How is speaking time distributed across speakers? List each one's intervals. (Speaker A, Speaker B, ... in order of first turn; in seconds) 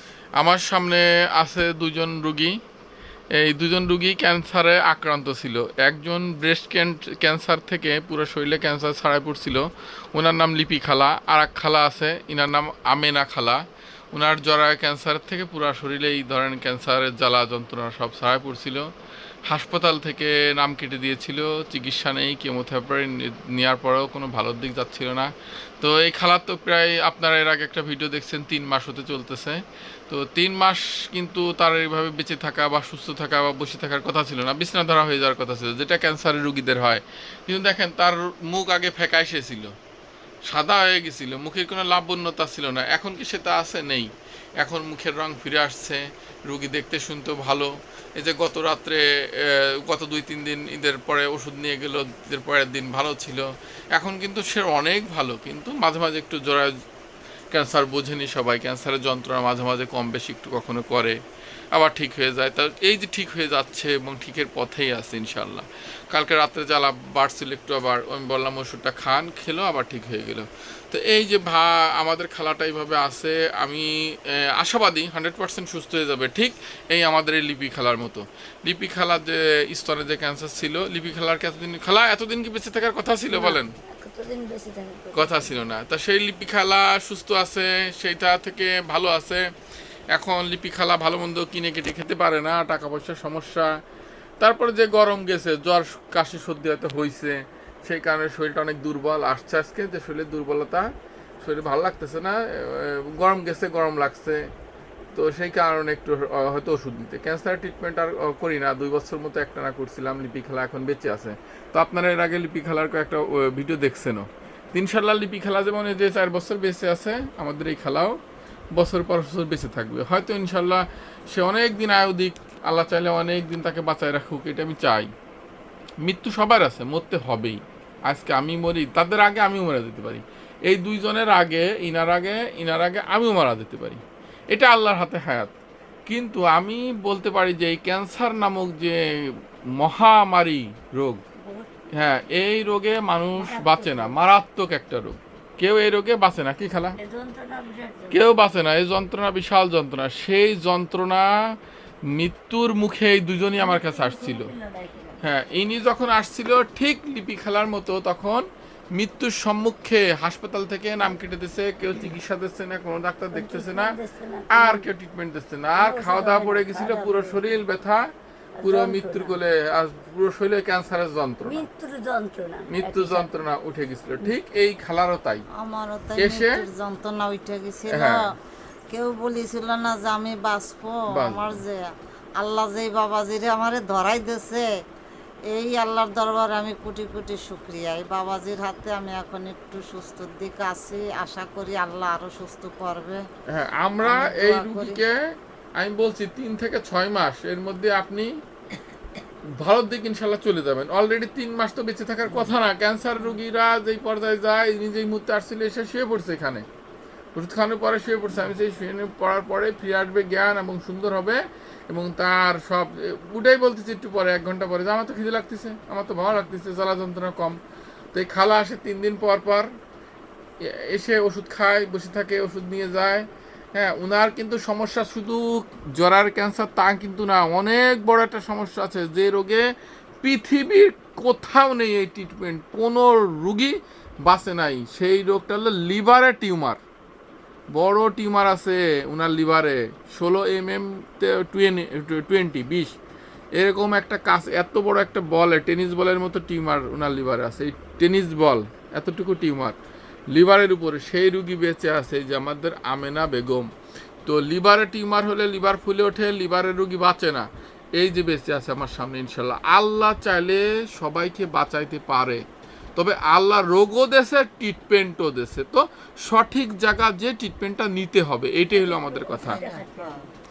Speaker A: 0.4-2.6, 3.4-18.9, 19.5-39.7, 40.5-56.7, 57.5-61.2, 61.7-83.7, 85.1-89.5, 90.1-93.7, 94.4-100.9, 101.4-104.5, 105.1-118.2, 118.8-125.1, 126.0-134.0, 134.5-135.5, 136.1-141.2, 141.9-147.0, 148.1-151.3, 152.1-154.5, 155.2-163.9, 164.5-168.1, 168.6-171.7, 172.7-175.4, 176.2-176.6, 177.9-178.3, 181.1-181.6, 193.5-198.3, 199.6-206.7, 207.3-217.6, 218.1-219.7, 220.6-229.7, 230.2-236.8, 237.7-242.9, 243.6-249.8, 250.3-253.7, 254.2-262.4, 263.0-269.6
Speaker B: 83.3-85.6, 141.4-141.8, 143.4-144.2, 147.0-148.2, 153.6-155.2, 163.3-164.9, 165.8-167.4, 168.6-169.4, 171.4-173.3, 268.7-270.2
Speaker C: 175.6-178.3, 178.9-181.8, 182.4-184.7, 185.5-193.2, 194.0-195.0, 269.4-270.2